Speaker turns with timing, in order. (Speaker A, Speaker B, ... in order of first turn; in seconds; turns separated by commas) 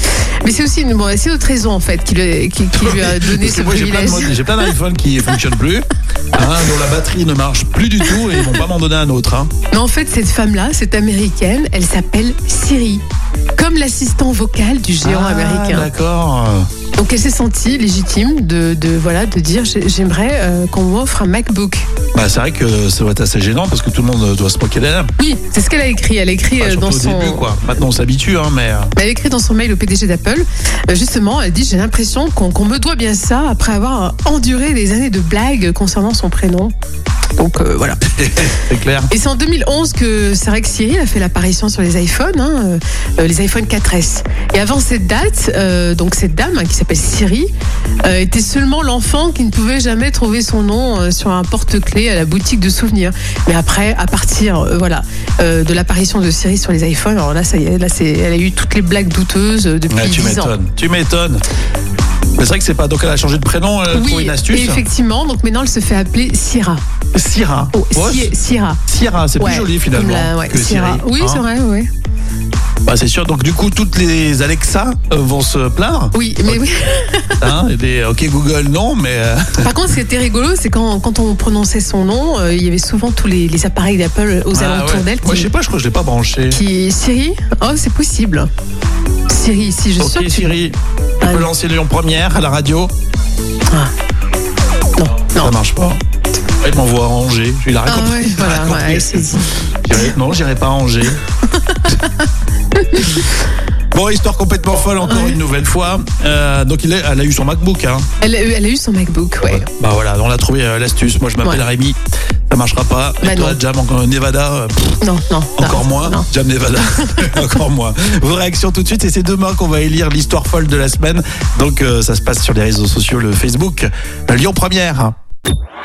Speaker A: 0.4-4.7, Speaker B: 2.7-9.5, Speaker A: 8.1-8.6, Speaker A: 9.7-13.0, Speaker A: 13.6-15.9, Speaker B: 15.0-16.7, Speaker A: 17.0-21.9, Speaker B: 22.1-25.1, Speaker A: 25.2-27.5, Speaker B: 26.6-28.9, Speaker A: 28.9-36.7, Speaker A: 37.4-38.5, Speaker B: 38.2-39.1, Speaker A: 39.1-47.5, Speaker A: 48.0-60.5, Speaker B: 59.9-61.4, Speaker B: 62.4-64.8, Speaker A: 63.9-66.8, Speaker B: 67.1-68.3, Speaker A: 67.7-68.8, Speaker B: 68.9-71.4, Speaker A: 69.4-71.9, Speaker B: 72.8-76.6, Speaker A: 76.1-77.5, Speaker B: 77.4-79.7, Speaker A: 79.6-85.5, Speaker B: 84.5-86.6, Speaker A: 86.5-88.5, Speaker A: 89.3-90.5, Speaker B: 90.0-92.9, Speaker A: 91.2-91.5, Speaker A: 95.0-95.5, Speaker B: 95.4-96.0, Speaker B: 96.6-101.2, Speaker A: 97.8-99.4, Speaker A: 101.7-102.1, Speaker A: 102.8-103.2, Speaker B: 103.9-108.0, Speaker A: 105.0-105.4, Speaker A: 108.2-109.7, Speaker B: 109.4-112.0, Speaker B: 112.5-115.0, Speaker A: 113.2-113.6, Speaker A: 115.0-116.2, Speaker B: 115.6-125.1, Speaker A: 116.8-117.6